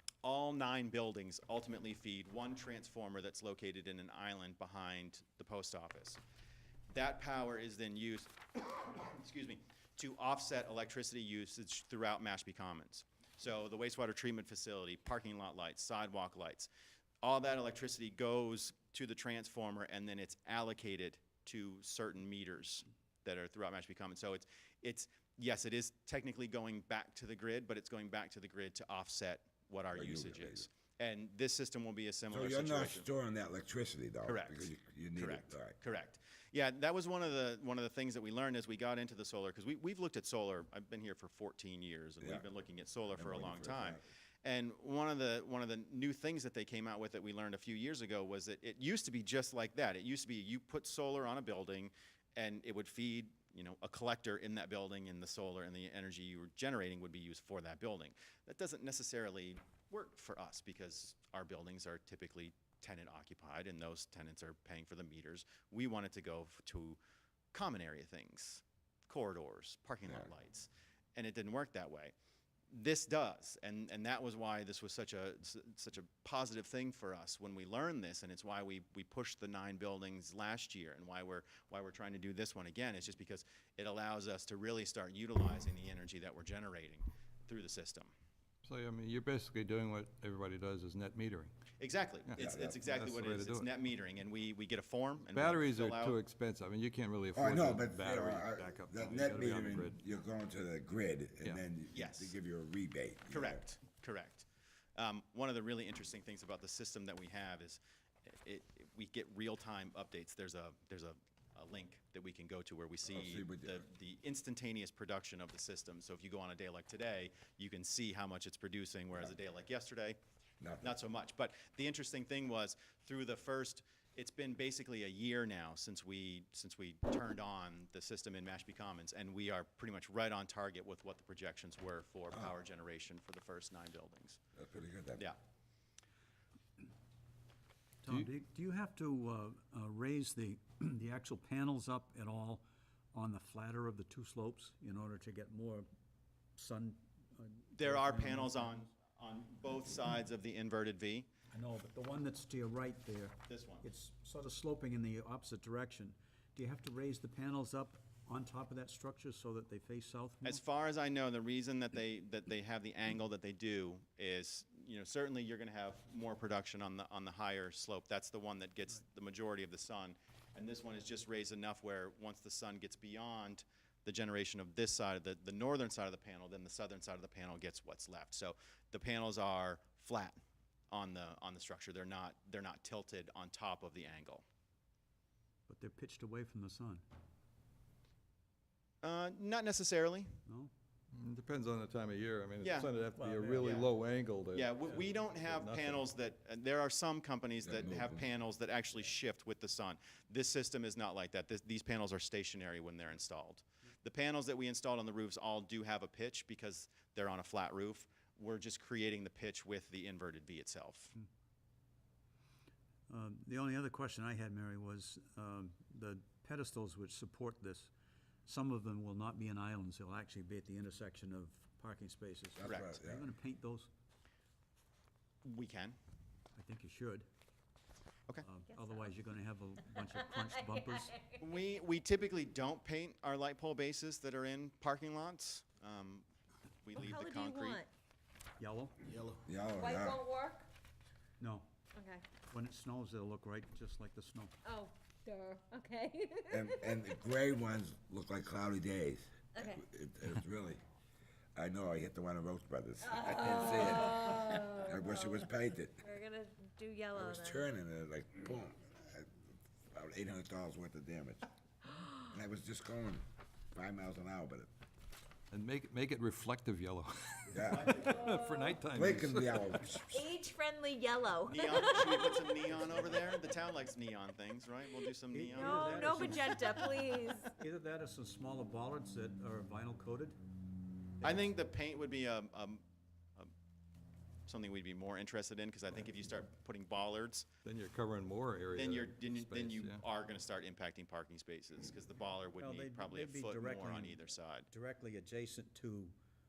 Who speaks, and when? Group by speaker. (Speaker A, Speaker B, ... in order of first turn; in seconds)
Speaker A: 0.2-6.2, 6.9-16.7, 17.2-33.1, 34.2-67.0, 67.5-72.1, 72.7-88.1, 91.8-96.2, 101.9-102.3, 103.3-120.2, 120.8-134.4, 147.7-151.3, 153.5-153.9, 160.4-180.4, 180.9-184.4, 189.0-190.3, 192.6-192.9, 193.6-193.9, 194.5-211.2, 222.6-222.9, 225.4-226.0, 231.4-236.2, 236.8-237.8, 239.0-239.4, 267.6-268.4, 271.4-276.6, 281.2-282.8, 284.5-287.5, 288.7-294.7
Speaker B: 29.9-30.7, 32.3-35.8, 43.1-44.0, 92.4-92.8, 97.3-103.6, 113.1-113.8, 120.6-120.9, 134.6-135.2, 197.6-198.2, 222.5-223.3, 239.4-240.2, 246.5-250.8, 251.5-256.1, 257.1-261.5, 262.2-264.7, 267.5-268.0, 268.9-270.2
Speaker C: 88.6-91.5, 92.2-93.7, 95.3-100.0, 191.1-196.1, 265.5-270.0, 287.6-290.0
Speaker D: 138.0-145.9, 146.6-148.8, 151.5-160.6, 185.7-187.0, 193.1-193.8, 213.1-217.9, 218.5-223.9, 226.5-227.2, 228.4-231.2, 238.6-239.0, 241.4-241.7, 242.4-244.5, 275.3-276.8, 277.5-280.4, 292.6-296.1
Speaker E: 228.7-229.1, 230.0-231.4, 236.9-237.9, 239.7-240.7, 241.9-242.4, 244.6-246.9, 249.5-249.8, 253.0-255.5, 256.0-257.7, 268.0-268.7, 270.1-272.7, 275.5-277.5